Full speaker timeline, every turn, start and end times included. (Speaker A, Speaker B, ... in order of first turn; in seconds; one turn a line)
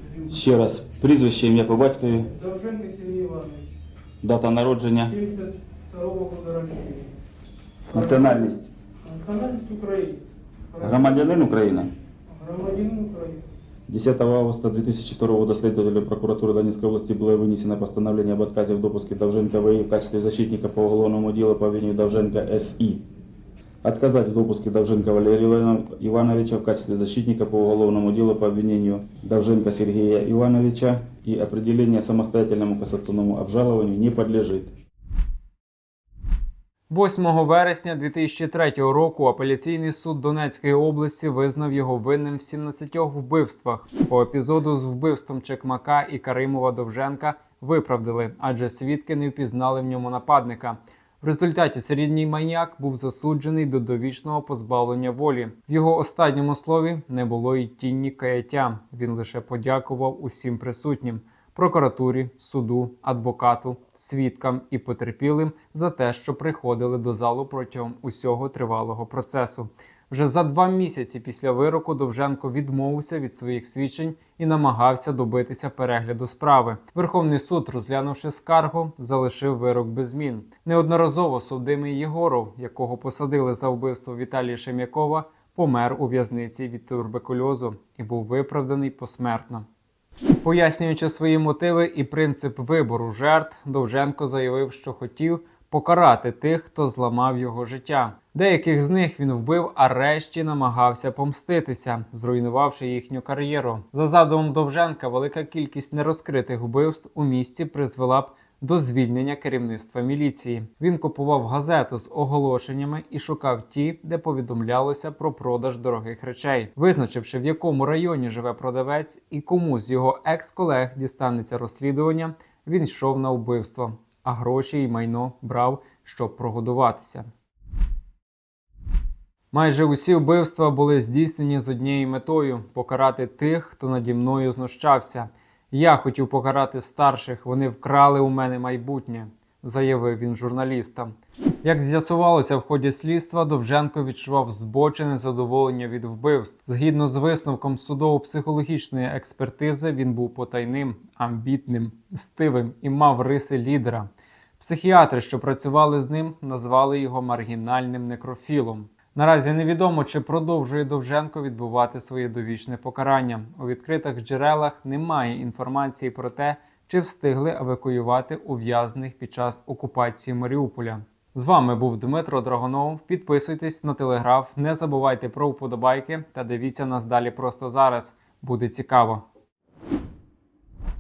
Speaker A: 0.3-2.3
Speaker B: 2.3-3.8
Speaker A: 4.2-5.1
Speaker B: 5.1-7.1
Speaker A: 7.9-8.7
Speaker B: 7.9-8.2
Speaker B: 9.0-10.2
Speaker B: 10.7-11.0
Speaker A: 10.8-11.9
Speaker B: 12.3-13.4
Speaker A: 13.9-23.0
Speaker A: 23.8-34.7
Speaker C: 36.9-89.7
Speaker C: 90.4-127.3
Speaker C: 129.5-154.1
Speaker C: 154.6-179.2